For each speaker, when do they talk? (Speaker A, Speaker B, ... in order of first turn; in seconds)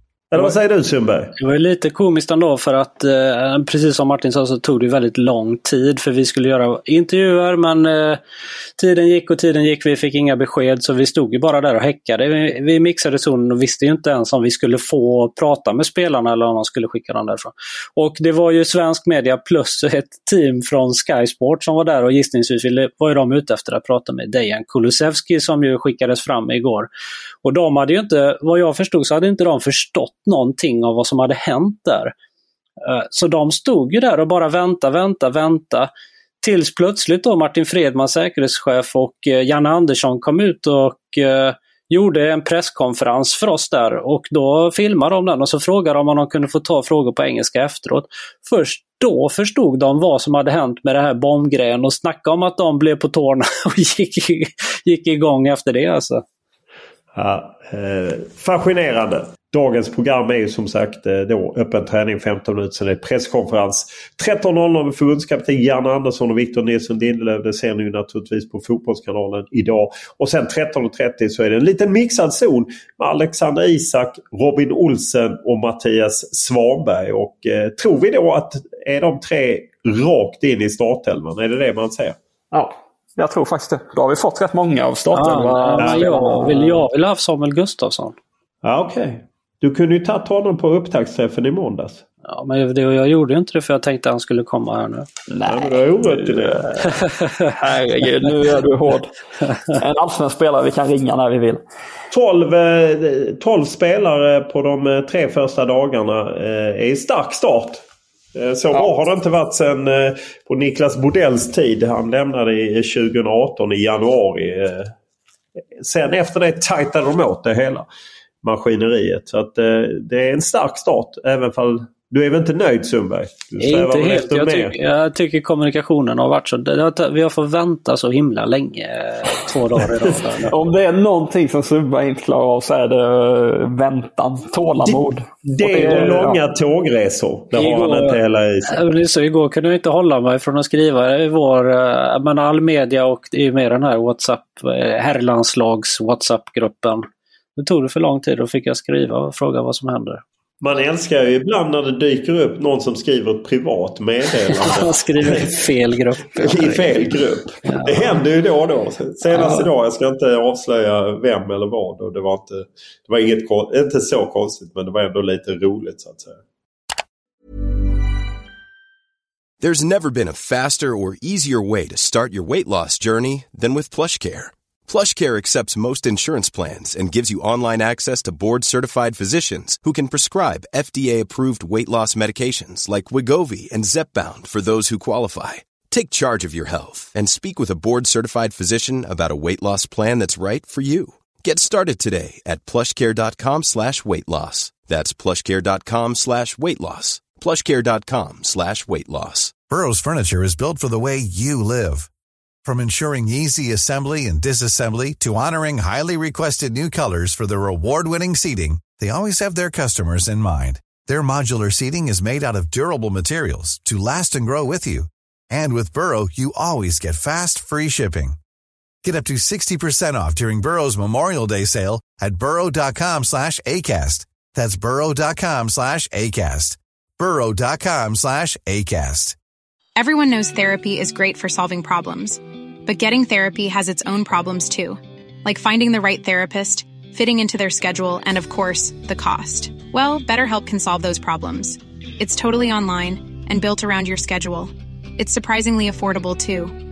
Speaker A: 0.3-1.3, 57.1-82.2, 85.8-86.1, 88.6-92.0, 95.5-97.0, 102.1-107.8, 108.3-114.9, 115.8-117.9, 118.4-124.7, 134.8-138.8, 150.6-155.6, 156.4-166.4
Speaker B: 1.4-8.2, 8.8-26.9, 27.4-32.1, 32.8-35.9, 36.4-56.2, 85.1-88.2, 92.3-95.1, 123.6-130.5, 137.6-147.0, 147.6-150.2, 154.5-158.2
Speaker C: 82.5-86.8, 95.3-96.7, 97.6-99.1, 99.7-101.6, 130.5-136.4
Speaker D: 169.6-199.6
Speaker E: 199.6-202.1, 202.6-218.4, 219.0-229.4
Speaker F: 229.9-246.8